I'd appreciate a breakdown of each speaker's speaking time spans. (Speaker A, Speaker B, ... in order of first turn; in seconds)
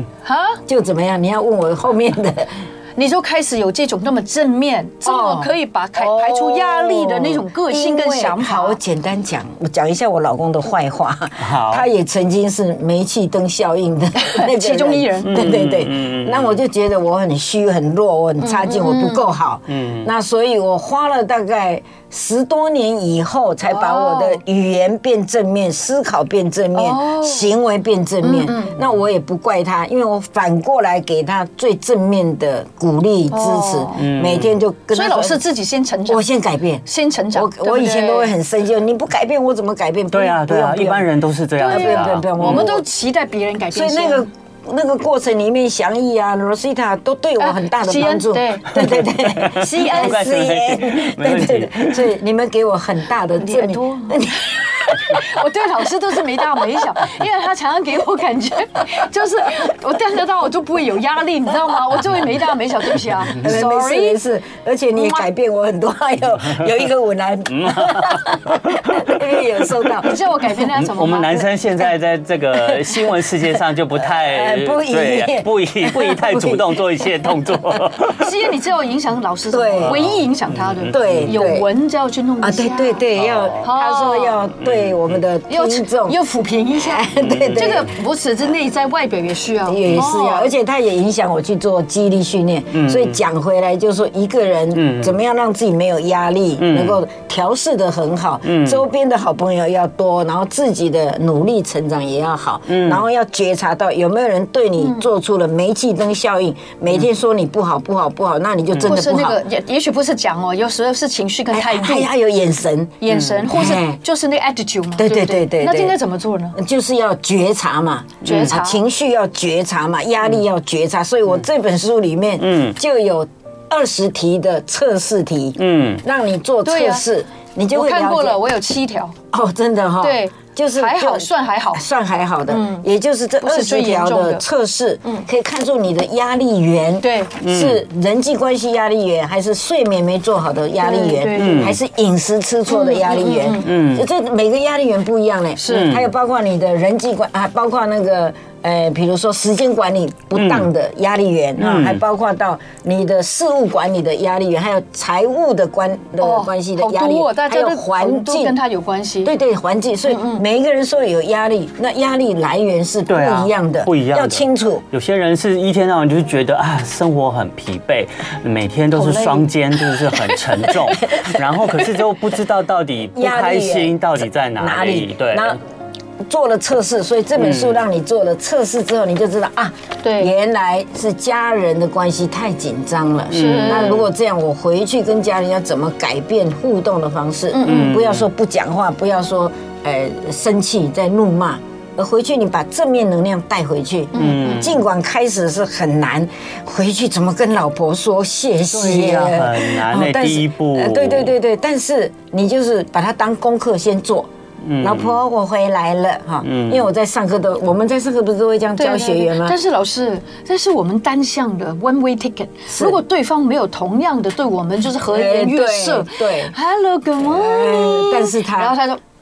Speaker A: 0.2-0.6, 3.0-8.8, 14.1-15.5, 18.4-19.3, 23.6-24.4, 26.7-27.5, 28.2-28.7, 33.3-34.0, 34.9-36.3, 36.8-38.3, 41.6-44.2, 47.4-50.2, 53.4-54.3, 54.9-64.2, 65.0-65.3, 70.0-71.5, 78.1-83.0, 83.6-84.5, 85.5-90.5, 104.8-105.0, 108.8-112.1, 113.0-116.6, 118.2-118.8, 126.6-127.0, 127.7-129.2, 130.0-131.8, 132.5-132.8, 133.4-134.4, 137.0-137.3, 140.8-141.7, 142.7-143.7, 145.6-145.9, 156.2-159.3, 160.1-160.4, 168.9-171.2, 180.0-180.3, 183.3-184.0, 187.5-187.9, 194.1-194.7, 208.8-219.0
Speaker B: 0.7-2.5, 5.0-35.4, 36.1-41.1, 41.6-42.8, 43.7-55.1, 63.3-70.2, 72.5-77.8, 79.5-80.0, 80.9-81.7, 82.4-86.2, 86.7-87.9, 89.6-109.4, 111.5-114.0, 115.0-116.0, 116.5-128.4, 129.3-158.6, 159.2-164.8, 173.2-174.0, 174.6-175.6, 176.2-204.3, 204.8-209.6, 212.7-213.0, 215.1-216.5, 217.2-218.8
Speaker C: 11.4-11.8, 15.2-16.6, 19.7-20.1, 34.0-34.5, 40.1-42.7, 49.1-52.1, 67.5-69.2, 70.7-78.3, 79.8-81.3, 83.1-83.6, 84.6-85.2, 87.2-87.8, 92.7-93.2, 94.7-95.1, 96.6-97.0, 98.4-98.8, 102.7-103.0, 113.1-113.4, 118.2-118.5, 122.4-122.7, 125.6-126.0, 137.4-137.8, 141.3-141.8, 143.6-144.0, 145.7-146.1, 150.3-150.7, 151.6-152.0, 163.1-175.6, 177.4-177.8, 183.3-184.1, 187.6-188.3, 194.1-194.8, 198.7-201.3, 204.6-205.2, 206.4-206.8